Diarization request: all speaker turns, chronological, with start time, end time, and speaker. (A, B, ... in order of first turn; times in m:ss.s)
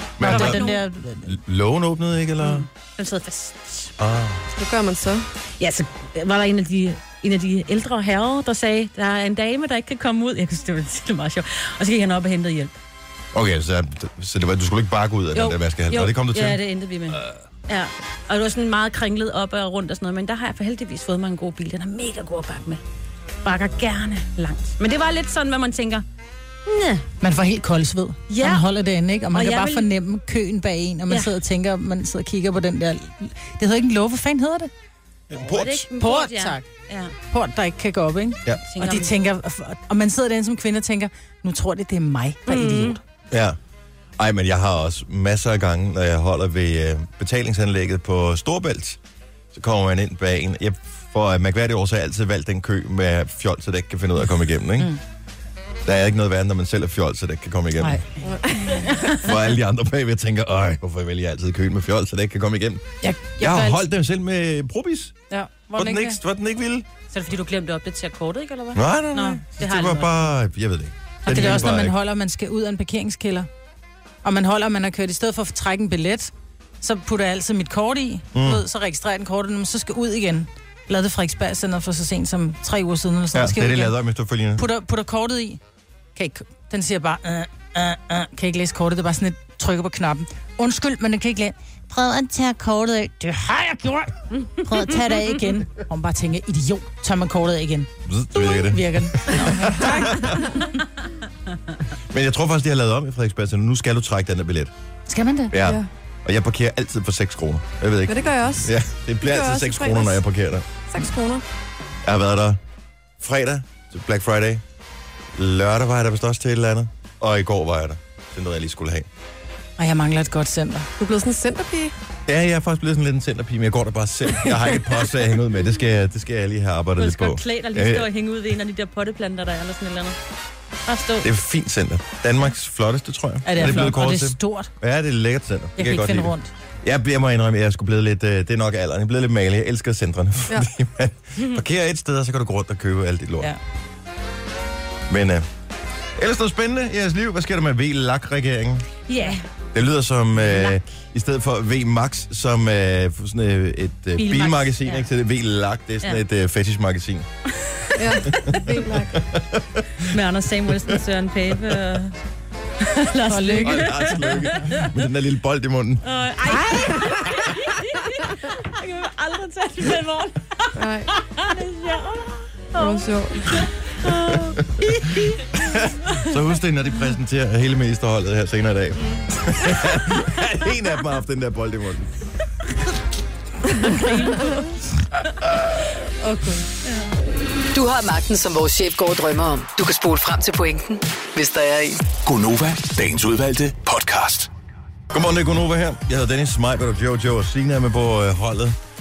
0:00.2-0:00.7 A
0:00.2-0:00.8 B
0:00.2-0:01.4 C
0:01.2-0:02.7 A
0:02.4-0:03.9 B
0:04.0-0:04.4 A
0:04.5-0:05.3 D
0:05.6-0:12.8 B
0:13.3-0:17.4 A
0:15.4-0:22.8 B
0:23.4-0:26.0 B
0:26.7-0:27.0 B
0:27.2-0:34.7 C
0:28.3-0:28.7 B
0:29.3-0:29.9 B
0:31.1-0:31.4 B
0:35.3-0:35.9 A
0:35.4-0:37.2 B
0:36.0-0:36.7 C
0:37.3-0:43.0 C
0:38.7-0:39.1 B
0:43.3-0:43.6 A
0:44.2-0:49.0 A
0:49.5-0:55.0 A
0:55.8-0:58.0 A
0:57.8-0:58.0 C
0:58.2-0:59.2 D
0:59.2-1:02.9 A
1:03.0-1:03.8 C
1:03.4-1:05.2 A
1:05.3-1:06.2 C
1:05.8-1:06.9 A
1:07.1-1:10.2 B
1:08.7-1:12.0 A
1:11.3-1:11.7 B
1:11.3-1:13.5 C
1:14.2-1:24.0 C
1:18.3-1:18.6 A
1:23.3-1:24.7 A
1:24.6-1:25.6 C
1:26.2-1:40.4 C
1:34.4-1:35.0 B
1:38.0-1:40.4 A
1:42.1-1:44.7 A
1:45.1-1:45.6 C
1:45.5-1:50.7 A
1:45.6-1:45.9 D
1:48.1-1:50.2 D
1:50.9-1:51.4 D
1:52.0-1:52.6 A
1:53.2-1:54.6 A
1:55.4-1:59.1 A
1:59.8-2:00.9 C
2:01.0-2:01.9 D
2:02.3-2:08.1 A
2:07.0-2:10.2 B
2:10.9-2:11.3 B
2:11.2-2:23.5 A
2:13.4-2:14.7 C
2:15.8-2:16.5 C
2:25.1-2:25.5 A
2:26.2-2:29.0 A
2:29.1-2:29.4 B
2:29.7-2:37.3 A
2:34.2-2:35.1 B
2:38.0-2:39.2 D
2:38.3-2:40.2 A
2:40.0-2:42.2 B
2:41.5-2:42.0 A
2:42.8-2:44.9 B
2:43.3-2:44.6 C
2:43.6-2:46.1 A
2:46.0-2:55.6 B
2:46.5-2:47.4 D
2:50.8-2:51.1 D
2:52.8-2:53.6 D
2:55.6-3:02.1 A
3:03.7-3:04.6 D
3:04.0-3:04.6 B
3:06.2-3:06.7 D
3:07.7-3:12.1 E
3:12.2-3:14.5 F
3:15.1-3:18.8 A